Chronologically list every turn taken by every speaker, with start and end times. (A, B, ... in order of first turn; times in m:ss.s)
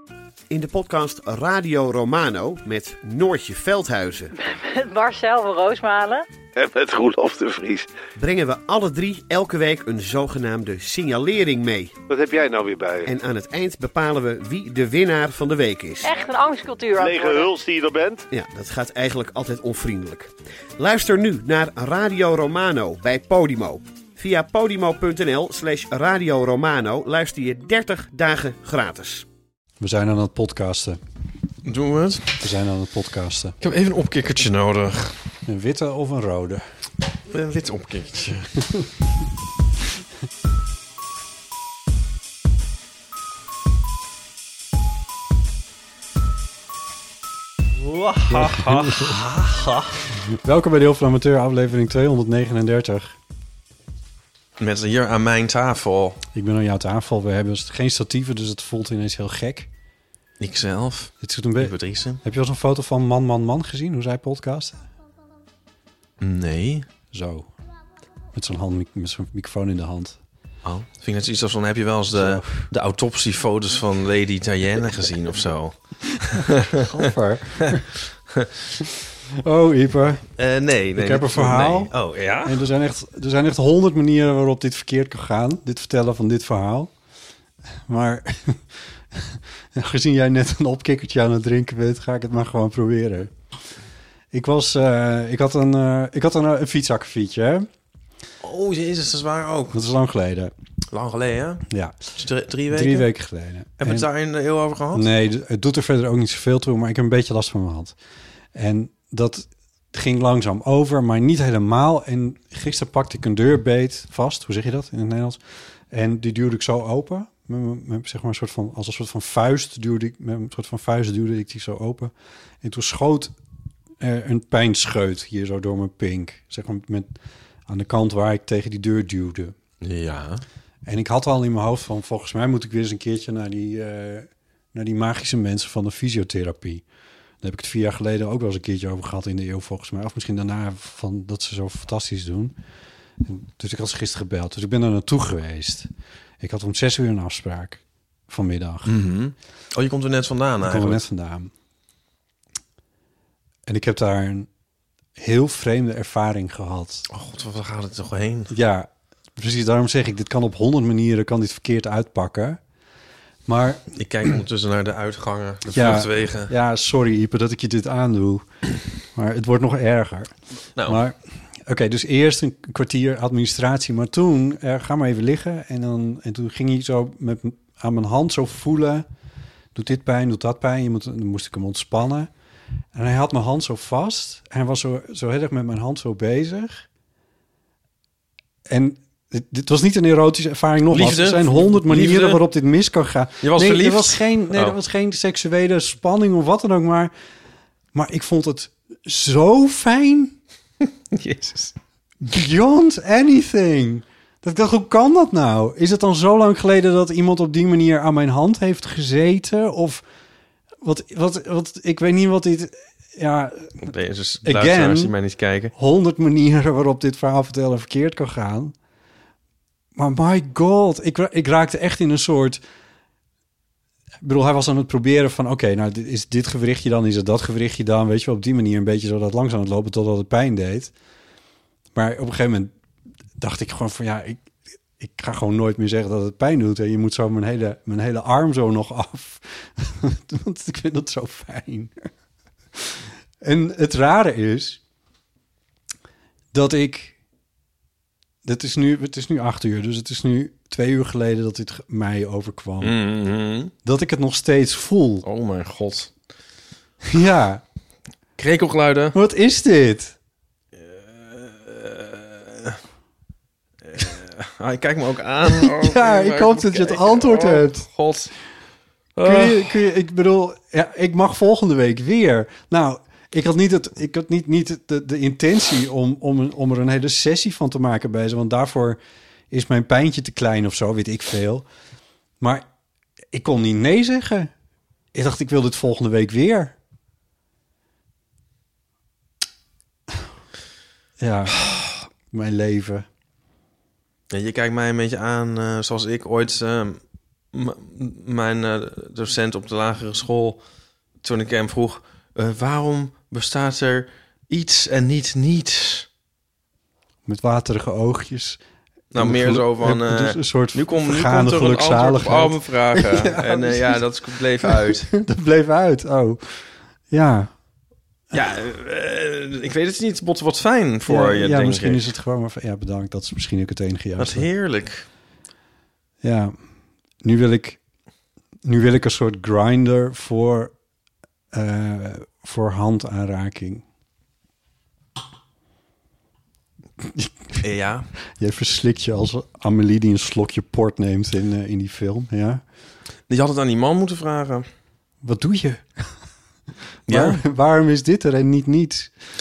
0:00.5-0:04.3 A
0:04.4-0:06.2 B
0:06.6-0:07.9 C
0:08.2-0:12.0 A
0:12.1-0:13.1 C
0:13.1-0:16.1 A
0:16.0-0:17.5 B
0:17.0-0:18.3 C
0:18.3-0:29.2 A
0:29.8-0:31.0 D
0:31.6-0:32.4 E
0:32.3-0:33.6 D
0:33.6-0:35.2 E
0:35.5-0:36.6 D
0:37.3-0:38.6 E
0:47.8-0:50.0 E
0:48.3-0:49.2 D
0:50.3-0:53.2 D
0:54.6-0:56.2 E
0:56.3-0:59.7 D
1:00.4-1:02.2 E
1:01.2-1:04.9 D
1:06.2-1:06.9 E
1:07.1-1:07.5 D
1:08.3-1:10.2 D
1:10.6-1:16.9 E
1:12.1-1:12.6 D
1:16.8-1:17.9 D
1:19.4-1:20.2 D
1:20.4-1:22.6 E
1:21.0-1:21.9 D
1:22.4-1:26.9 D
1:27.8-1:33.3 D
1:34.3-1:37.7 D
1:38.4-1:39.8 E
1:39.7-1:40.5 D
1:40.9-1:41.6 E
1:41.7-1:42.1 D
1:42.2-1:43.1 E
1:42.7-1:44.1 D
1:43.8-1:45.1 E
1:44.9-1:48.0 D
1:48.5-2:03.3 D
2:04.0-2:07.1 D
2:07.7-2:09.6 D
2:09.8-2:10.4 E
2:10.8-2:16.8 D
2:17.4-2:22.6 D
2:23.2-2:29.0 D
2:28.8-2:31.0 E
2:30.6-2:31.5 D
2:33.7-2:34.5 D
2:35.2-2:37.0 D
2:37.1-2:38.5 E
2:38.5-2:42.6 D
2:43.5-2:43.8 D
2:43.9-2:46.5 E
2:45.7-2:48.5 D
2:49.1-2:59.1 D
2:59.8-3:02.3 D
3:02.9-3:06.9 D
3:08.7-3:17.1 D
3:10.9-3:12.4 E
3:13.4-3:14.8 E
3:17.9-3:20.4 D
3:21.1-3:21.8 E
3:22.2-3:30.0 D
3:30.8-3:33.9 D
3:33.8-3:35.7 E
3:34.4-3:35.1 D
3:35.8-3:38.8 D
3:40.0-3:42.6 D
3:44.2-3:50.9 D
3:51.9-3:52.8 D
3:53.4-4:02.1 D
4:02.8-4:04.8 D
4:06.5-4:07.2 D
4:08.4-4:13.0 D
4:12.8-4:13.7 E
4:13.8-4:15.2 D
4:15.2-4:16.1 E
4:17.1-4:17.6 D
4:18.4-4:19.2 E
4:19.1-4:20.2 D
4:20.8-4:22.8 E
4:23.9-4:28.3 E
4:25.5-4:27.8 D
4:29.2-4:29.8 E
4:29.2-4:39.0 D
4:39.5-4:41.7 D
4:42.4-4:42.7 D
4:43.3-4:44.5 D
4:45.1-4:46.8 D
4:51.2-4:51.7 D
4:52.3-4:53.1 D
4:54.3-4:57.0 E
4:57.5-5:00.6 E
5:01.2-5:06.1 E
5:07.3-5:08.6 D
5:09.1-5:15.1 E
5:09.2-5:14.0 D
5:14.6-5:17.5 D
5:18.3-5:22.1 E
5:21.1-5:24.5 D
5:24.2-5:25.0 E
5:26.2-5:26.6 D
5:27.2-5:27.8 D
5:28.6-5:30.7 D
5:31.5-5:33.8 D
5:37.0-5:37.6 D
5:37.6-5:38.1 E
5:38.4-5:42.6 D
5:43.3-5:44.7 E
5:45.2-5:46.1 D
5:47.1-5:49.1 D
5:47.1-5:47.4 E